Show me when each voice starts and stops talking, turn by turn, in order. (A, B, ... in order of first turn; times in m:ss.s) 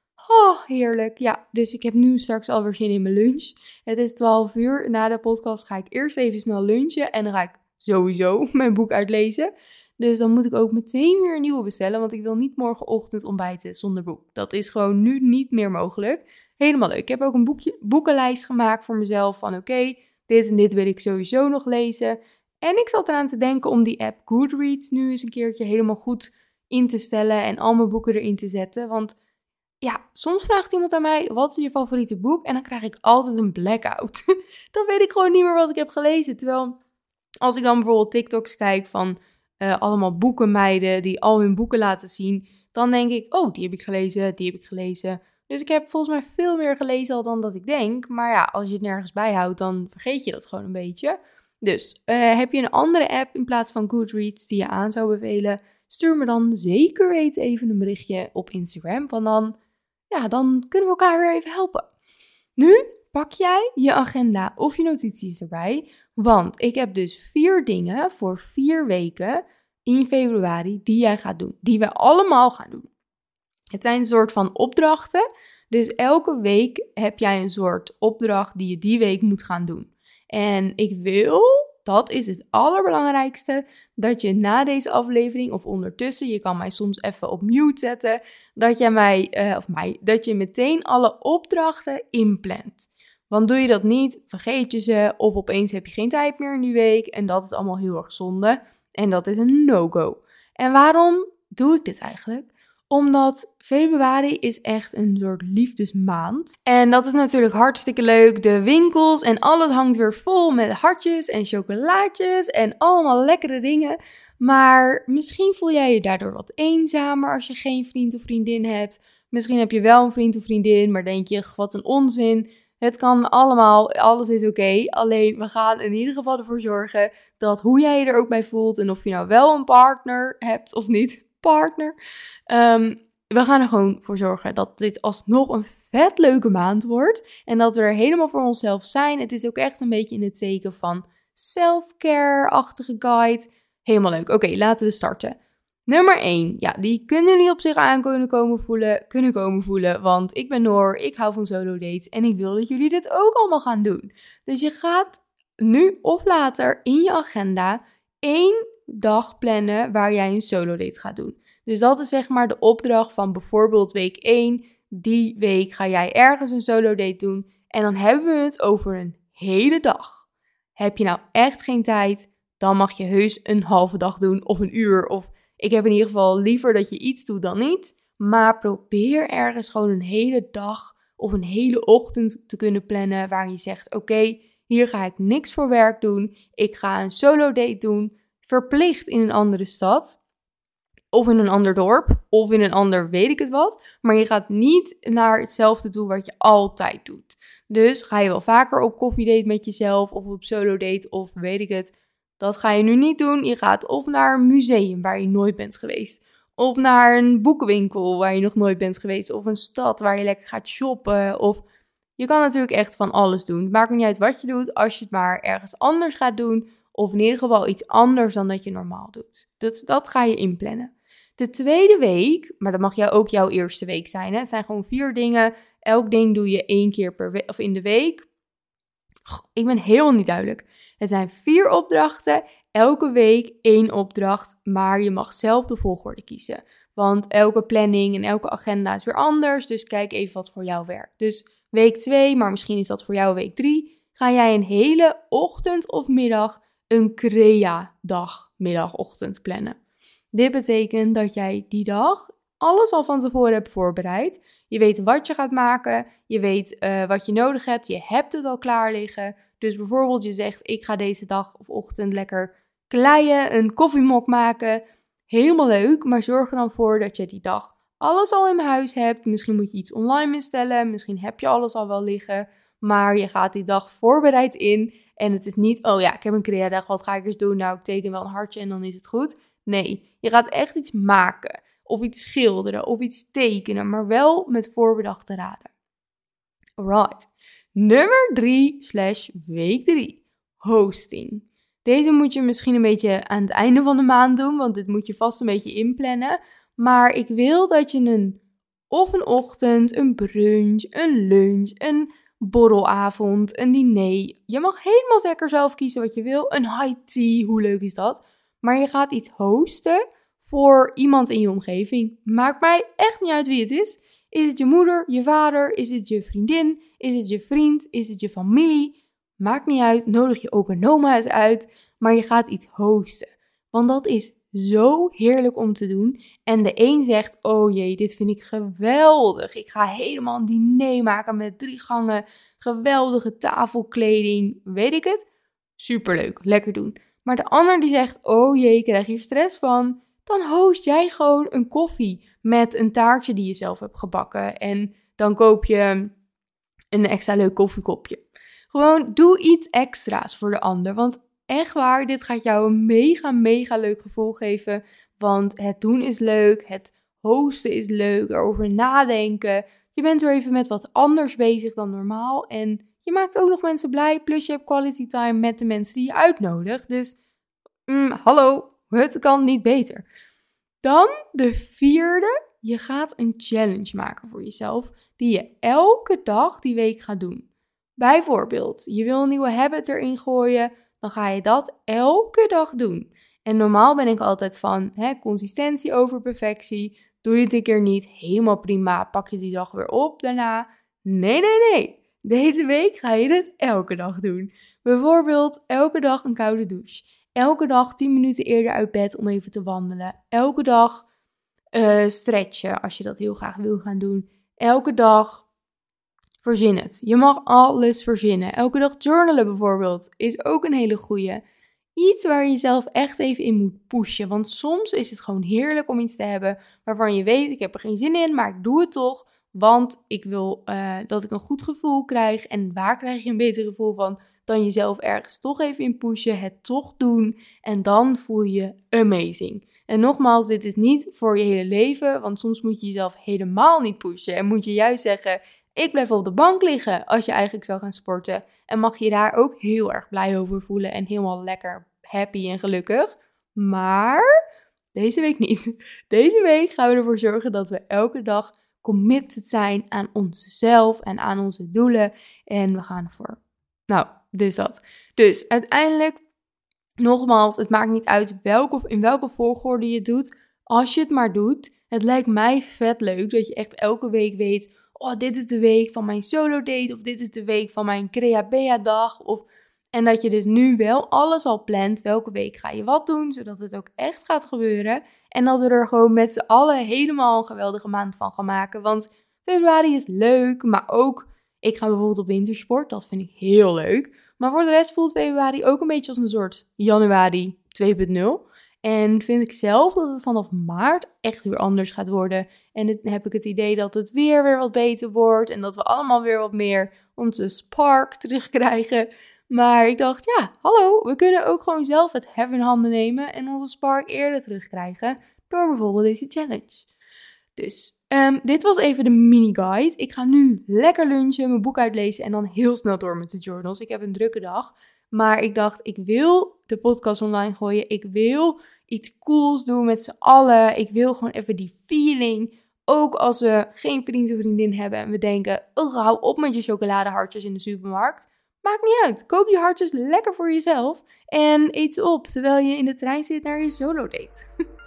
0:00.2-0:29.2 A
0:29.8-0:36.8 A
0:37.4-0:59.6 A
1:00.1-1:01.9 A
1:02.6-1:12.9 A
1:13.7-2:12.0 A
2:12.5-2:50.2 A
2:50.8-3:10.2 A
3:11.1-3:31.6 A
3:32.2-3:48.3 A
3:49.3-4:09.8 A
4:10.3-4:45.7 A
4:46.8-4:58.4 A
4:58.9-5:35.3 A
5:35.8-5:46.1 A
5:46.9-6:07.2 A
6:07.9-6:10.0 A
6:10.8-6:17.5 A
6:18.0-6:41.0 A
6:41.7-6:45.4 A
6:46.4-6:51.4 A
6:52.0-7:24.3 A
7:24.9-7:36.2 A
7:37.0-8:26.9 A
8:27.6-8:54.4 A